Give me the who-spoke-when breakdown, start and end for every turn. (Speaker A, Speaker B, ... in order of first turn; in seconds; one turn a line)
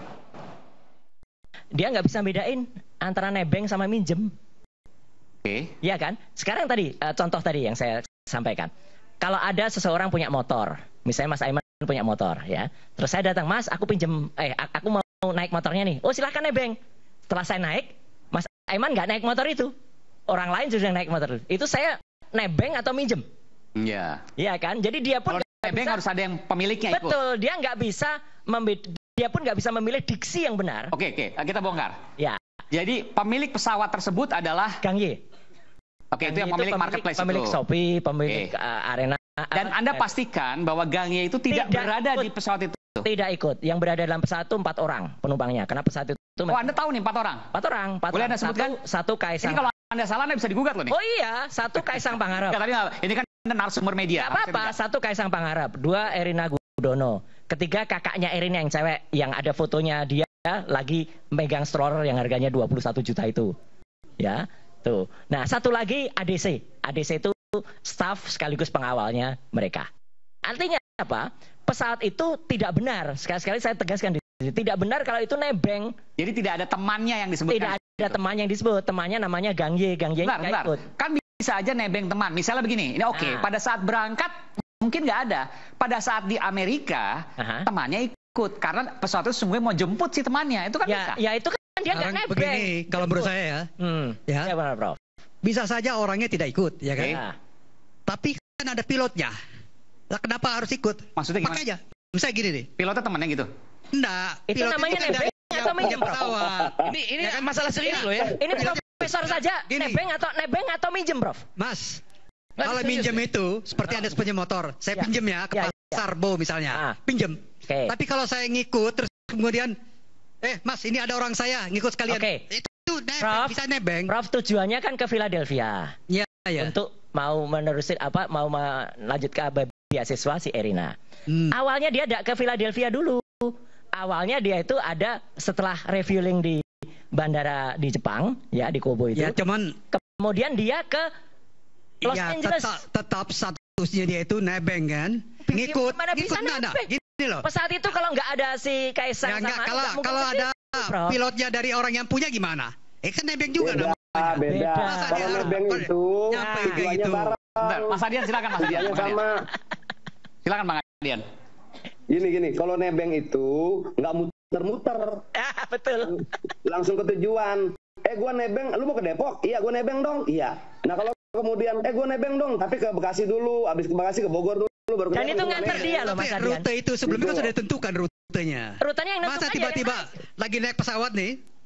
Speaker A: 1.7-4.3
Speaker B: 5.5-5.7
Speaker A: 5.8-8.7
Speaker A: 9.2-16.8
Speaker A: 17.3-19.7
Speaker A: 20.3-23.2
Speaker B: 23.8-24.2
Speaker A: 24.4-26.0
Speaker B: 25.3-27.2
Speaker A: 26.9-30.9
Speaker B: 30.9-31.9
Speaker B: 32.7-34.8
Speaker B: 36.1-37.6
Speaker A: 36.2-39.1
Speaker B: 39.5-43.1
Speaker A: 41.5-42.2
Speaker A: 43.1-46.5
Speaker B: 46.5-47.5
Speaker A: 47.6-49.6
Speaker B: 48.1-48.8
Speaker B: 49.4-51.0
Speaker A: 51.0-52.5
Speaker B: 52.1-54.7
Speaker A: 54.2-63.5
Speaker A: 64.2-69.9
Speaker A: 70.4-75.9
Speaker B: 76.2-78.2
Speaker A: 77.5-80.7
Speaker B: 80.2-91.2
Speaker A: 83.1-83.4
Speaker A: 90.9-94.9
Speaker C: 91.9-93.7
Speaker C: 94.3-94.5
Speaker C: 95.4-97.2
Speaker C: 98.1-99.3
Speaker C: 100.1-102.7
Speaker B: 101.2-101.6
Speaker B: 102.8-103.5
Speaker C: 103.9-106.8
Speaker A: 104.5-106.3
Speaker D: 106.8-108.5
Speaker C: 107.9-110.0
Speaker A: 108.3-111.4
Speaker C: 111.6-112.0
Speaker D: 112.6-113.2
Speaker C: 112.6-119.7
Speaker A: 114.9-116.0
Speaker C: 120.4-124.1
Speaker A: 122.1-122.4
Speaker A: 123.2-125.9
Speaker C: 126.1-126.7
Speaker A: 126.6-130.9
Speaker C: 131.3-131.5
Speaker A: 131.5-139.3
Speaker C: 139.1-139.8
Speaker A: 139.9-141.1
Speaker C: 142.0-147.5
Speaker A: 142.1-142.7
Speaker A: 145.4-146.9
Speaker A: 147.4-151.2
Speaker C: 149.2-157.3
Speaker E: 153.6-158.0
Speaker A: 154.4-155.5
Speaker A: 156.4-156.8
Speaker B: 157.6-159.2
Speaker E: 158.6-159.5
Speaker B: 160.4-161.2
Speaker E: 162.1-165.3
Speaker A: 165.3-166.2
Speaker E: 166.6-176.1
Speaker A: 175.1-176.7
Speaker C: 175.5-181.4
Speaker E: 177.1-177.5
Speaker A: 178.8-180.0